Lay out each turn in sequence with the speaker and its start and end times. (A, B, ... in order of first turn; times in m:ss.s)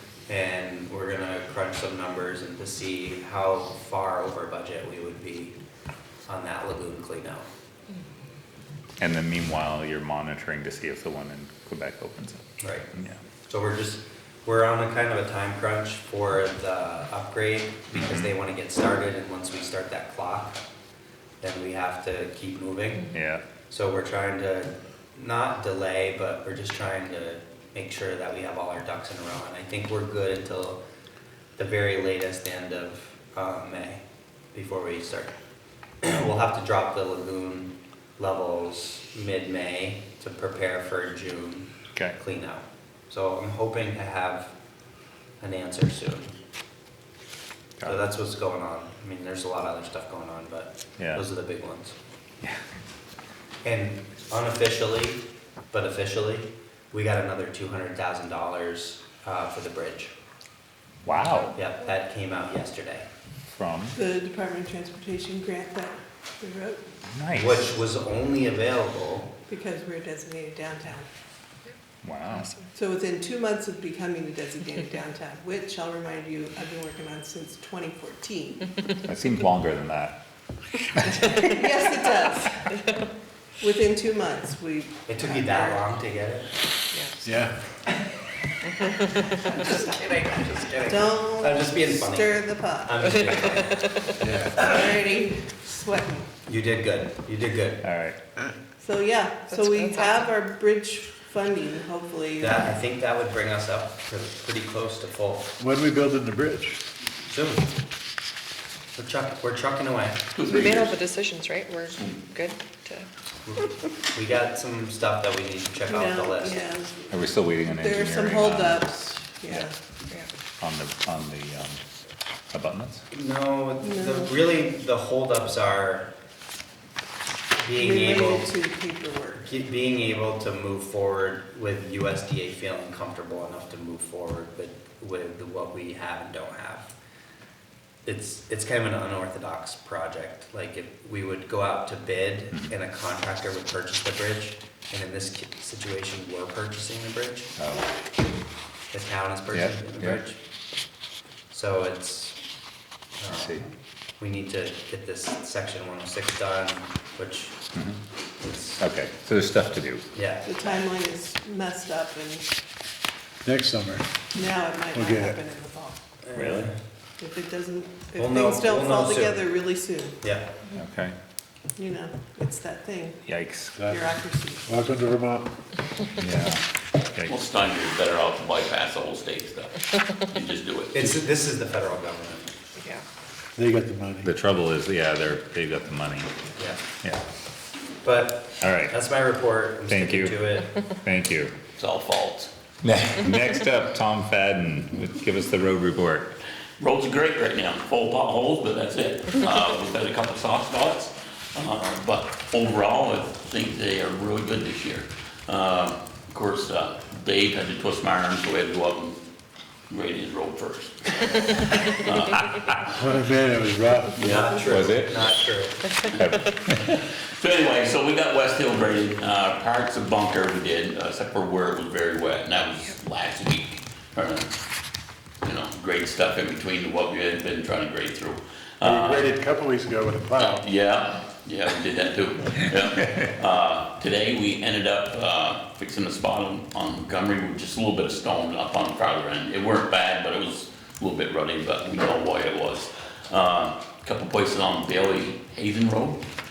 0:00.3-0:05.5 A
0:06.2-0:07.5 A
0:09.0-0:12.4 B
0:12.6-0:12.9 A
0:12.9-0:13.2 B
0:13.5-0:20.6 A
0:17.9-0:18.3 B
0:21.4-0:23.1 A
0:23.1-0:23.4 B
0:23.7-0:30.8 A
0:31.6-0:34.0 A
0:34.5-0:35.3 A
0:36.0-0:44.5 A
0:45.4-0:46.3 A
0:47.8-0:51.9 A
0:51.0-0:51.2 B
0:53.6-1:00.1 A
1:01.0-1:01.6 B
1:01.5-1:03.0 A
1:03.6-1:04.0 B
1:03.9-1:06.9 C
1:07.0-1:07.6 B
1:07.3-1:09.3 A
1:09.5-1:11.1 C
1:12.0-1:12.5 B
1:12.7-1:18.7 C
1:19.0-1:20.2 B
1:21.2-1:22.6 C
1:23.6-1:25.8 C
1:25.1-1:26.5 A
1:27.2-1:27.6 D
1:29.3-1:33.9 A
1:30.8-1:33.1 C
1:34.2-1:34.6 D
1:34.5-1:36.3 C
1:36.5-1:37.8 A
1:37.8-1:38.2 B
1:38.8-1:42.7 C
1:39.5-1:40.0 E
1:42.4-1:45.5 A
1:45.6-1:46.8 D
1:47.3-1:47.7 A
1:49.0-1:50.3 A
1:50.4-1:51.0 F
1:50.6-1:53.0 E
1:51.9-1:52.2 F
1:53.4-1:56.6 A
1:55.9-1:59.7 C
1:57.1-1:58.9 B
2:00.6-2:01.8 B
2:02.5-2:03.0 B
2:03.1-2:06.1 A
2:03.8-2:04.3 C
2:07.6-2:08.5 A
2:07.8-2:09.4 C
2:09.4-2:16.9 A
2:18.0-2:27.5 A
2:27.6-2:27.9 B
2:28.9-2:30.4 A
2:29.5-2:30.2 B
2:31.5-2:32.4 A
2:33.2-2:37.6 A
2:33.3-2:33.6 B
2:38.4-2:38.8 A
2:38.8-2:40.0 B
2:40.1-2:40.7 A
2:40.4-2:42.5 C
2:43.4-2:44.0 D
2:44.3-2:46.0 C
2:44.9-2:45.4 D
2:46.2-2:46.7 A
2:46.3-2:46.7 B
2:47.2-2:50.2 C
2:48.1-2:49.4 A
2:50.2-2:50.5 A
2:50.7-2:51.1 B
2:51.8-2:53.2 C
2:53.2-2:53.8 B
2:53.7-2:54.0 D
2:53.9-2:54.7 C
2:54.7-2:55.5 D
2:56.2-2:56.6 B
2:57.3-3:00.9 F
3:00.9-3:02.6 A
3:03.6-3:04.3 D
3:04.2-3:06.3 B
3:08.0-3:10.7 A
3:08.6-3:08.9 B
3:09.9-3:10.4 B
3:11.0-3:11.5 B
3:11.8-3:12.5 F
3:12.8-3:16.4 B
3:16.8-3:29.2 F
3:29.9-3:32.8 F
3:32.9-3:34.4 D
3:34.2-3:35.8 A
3:34.4-3:35.3 B
3:36.1-3:44.5 F
3:36.2-3:37.0 B
3:45.4-3:49.3 F
3:48.8-3:50.6 D
3:50.4-4:06.2 F